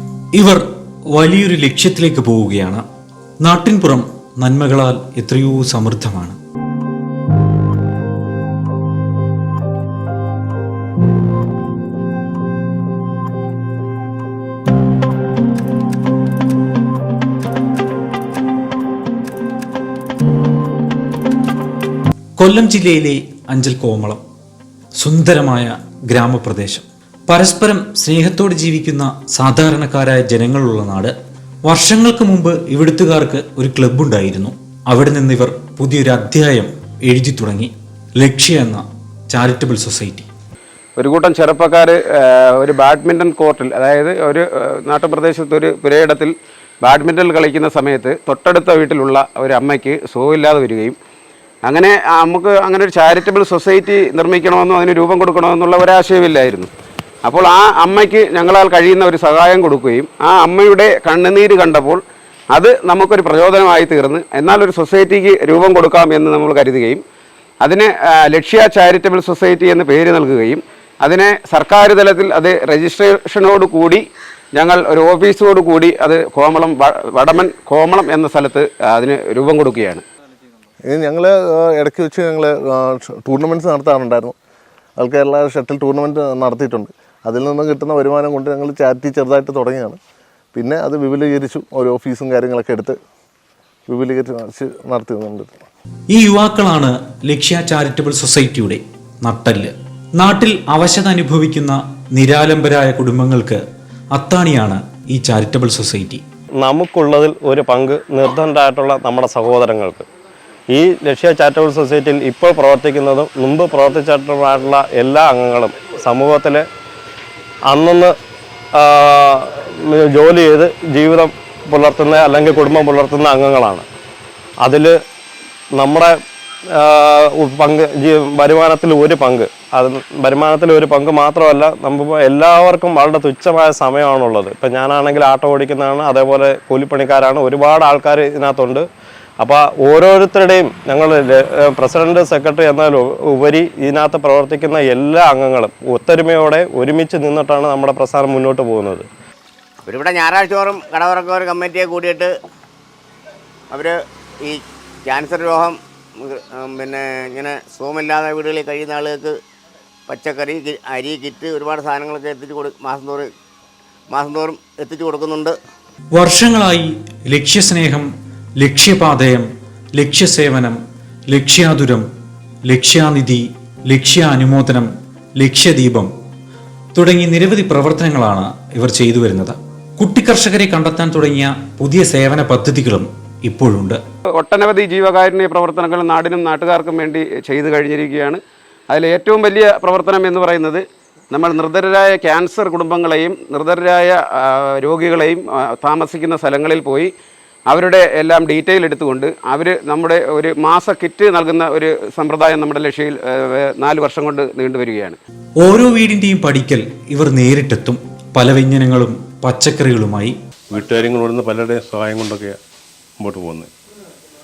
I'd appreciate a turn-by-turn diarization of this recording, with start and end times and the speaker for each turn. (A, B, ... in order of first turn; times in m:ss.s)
0:00.3-0:00.6 A
0:01.1-0:02.8 A
0:03.4-0:06.4 A
0:22.4-0:24.2 A
0:25.0-0:31.1 A
0:31.6-0:40.3 A
0:41.0-0:51.0 B
0:51.6-0:56.7 B
0:57.2-1:07.0 B
1:07.6-1:14.0 B
1:14.5-1:20.0 B
1:20.8-1:24.4 C
1:25.0-1:30.0 C
1:30.5-1:33.0 C
1:33.9-1:35.6 C
1:36.1-1:43.6 A
1:44.1-1:46.2 A
1:46.6-1:50.0 D
1:50.7-1:56.7 D
1:57.6-1:58.1 D
1:58.7-2:03.9 D
2:04.6-2:04.9 D
2:05.7-2:06.1 D
2:06.7-2:18.8 D
2:19.4-2:29.1 D
2:29.8-2:32.3 E
2:33.7-2:39.3 E
2:40.1-2:43.3 E
2:44.1-2:45.5 E
2:46.1-2:48.0 A
2:48.6-2:49.4 A
2:50.0-2:50.8 A
2:51.3-2:52.0 A
2:52.7-2:56.1 A
2:57.0-3:04.0 A
3:04.3-3:17.1 B
3:17.7-3:25.2 B
3:25.6-3:30.3 A
3:30.7-3:32.6 F
3:33.2-3:33.7 F